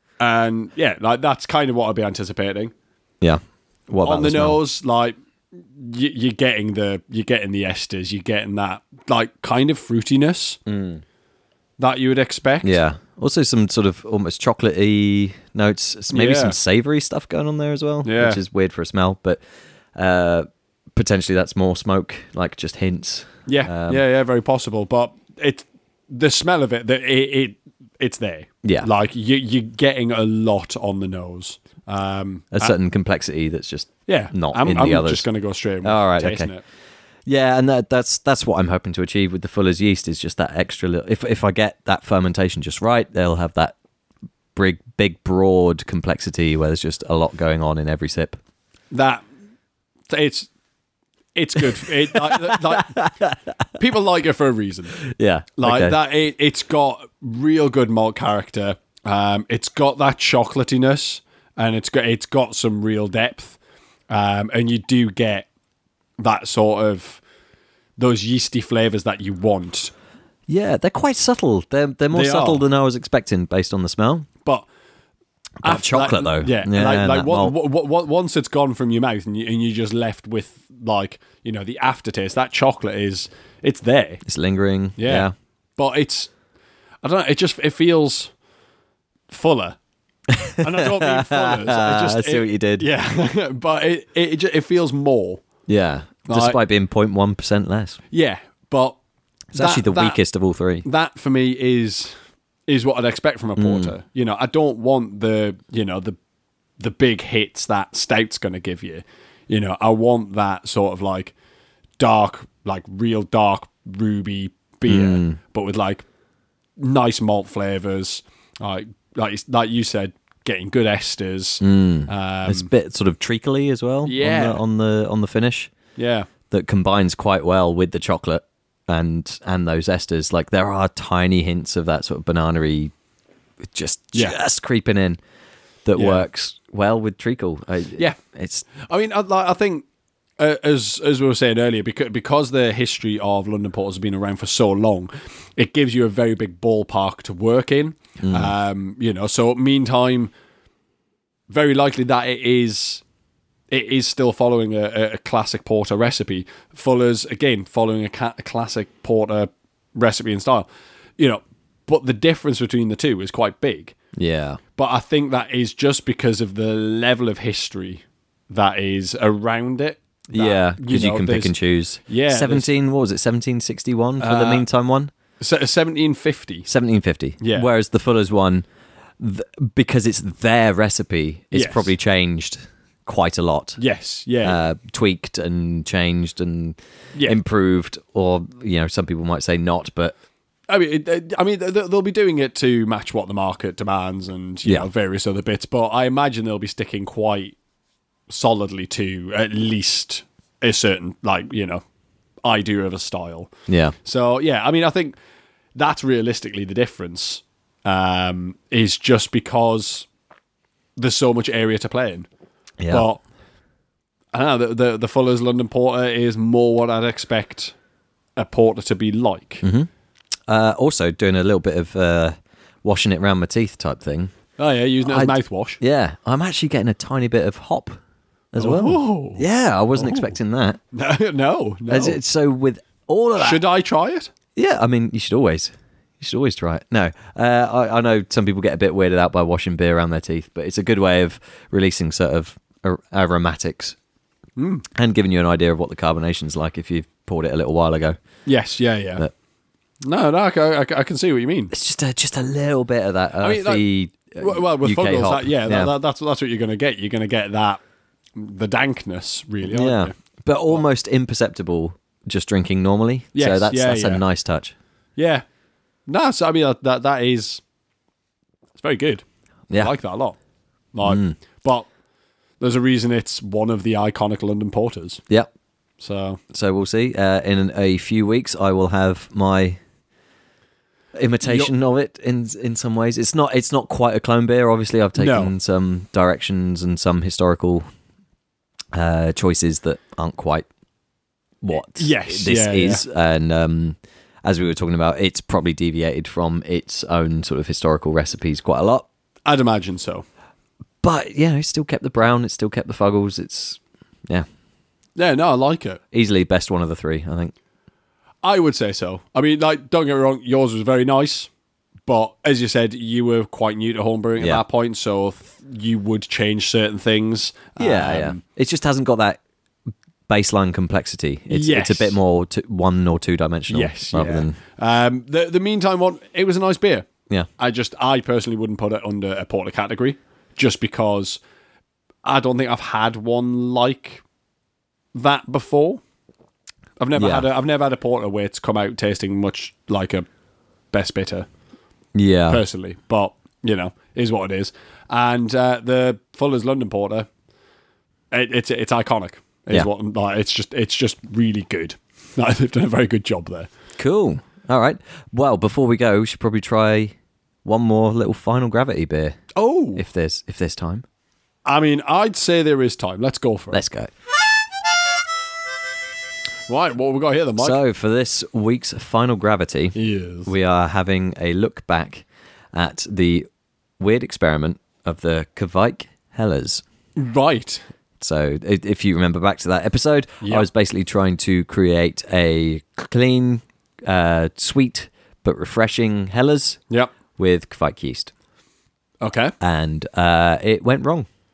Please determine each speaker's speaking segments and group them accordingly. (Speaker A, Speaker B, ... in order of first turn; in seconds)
Speaker A: 0.2-2.7, 4.0-10.6, 11.8-12.8, 16.1-16.6, 18.0-18.4, 23.5-32.7, 34.1-36.6, 48.9-49.2, 50.1-50.5, 51.4-53.0, 53.8-55.0, 55.6-63.6, 64.1-65.5, 66.2-67.2, 68.0-69.9, 72.1-72.7, 75.6-84.2, 85.0-86.3, 87.0-88.3, 89.3-89.8, 90.6-95.4, 96.3-96.6, 98.1-99.0, 99.5-100.2, 100.8-102.1, 102.7-106.2, 106.8-111.3, 112.0-116.0, 116.8-122.7, 124.1-124.6, 126.0-126.3, 136.0-136.2, 138.8-139.8, 140.4-150.3, 151.5-153.0, 153.7-160.7, 161.2-163.9, 164.8-171.5, 172.1-172.7, 174.2-174.7, 175.4-176.7, 177.4-177.7, 181.5-181.9, 183.8-184.6, 190.7-197.6, 198.3-201.8, 202.4-203.5, 204.0-205.2, 205.8-210.1, 211.0-212.3, 212.9-213.2, 214.3-217.8, 218.4-219.6, 224.6-225.8, 228.6-229.4, 229.9-230.3, 230.9-232.2, 233.4-234.3, 244.6-244.9, 248.5-249.2, 250.0-251.7, 253.4-253.8, 254.4-257.8, 258.4-260.1, 263.4-264.2, 265.1-265.4, 266.1-267.6, 268.8-269.2, 269.8-270.4, 270.9-271.9, 272.6-275.2, 276.0-276.4, 281.4-281.7, 285.1-285.5, 291.7-293.0, 299.5-300.2, 305.1-306.0, 308.4-311.5, 312.1-318.4, 321.5-322.1, 323.7-327.1, 327.6-331.4, 332.2-334.2, 335.1-336.0, 337.0-340.2, 340.9-341.5, 342.5-347.3, 348.3-353.7, 359.5-360.0, 361.6-363.8, 366.7-367.8, 370.0-370.5, 377.1-377.8, 389.2-389.5
Speaker B: 3.2-4.6, 10.7-11.0, 12.6-19.4, 19.9-24.0, 28.6-28.9, 32.5-35.2, 35.8-36.5, 37.3-43.7, 44.5-48.4, 51.8-53.6, 55.0-56.0, 70.5-74.3, 75.6-77.5, 84.3-85.3, 90.3-92.9, 95.7-98.0, 99.5-100.9, 103.6-103.9, 114.9-115.4, 121.6-125.7, 126.5-132.9, 133.7-135.2, 135.8-138.7, 148.2-148.5, 164.2-164.6, 170.3-175.1, 176.7-178.7, 179.2-183.8, 184.4-190.1, 203.7-203.9, 212.8-213.1, 219.6-219.9, 220.5-224.3, 225.1-228.0, 228.5-230.8, 231.9-233.6, 234.6-244.0, 244.9-248.2, 251.7-255.9, 259.6-264.8, 271.0-271.4, 276.5-279.8, 281.1-287.9, 288.9-290.7, 291.6-299.1, 301.0-304.5, 306.1-307.5, 317.8-319.4, 320.3-324.6, 337.1-337.5, 342.1-342.6, 354.0-359.4, 360.0-361.0, 363.7-364.1, 367.6-373.5, 374.0-376.8, 378.2-386.8, 387.4-388.3, 389.6-391.3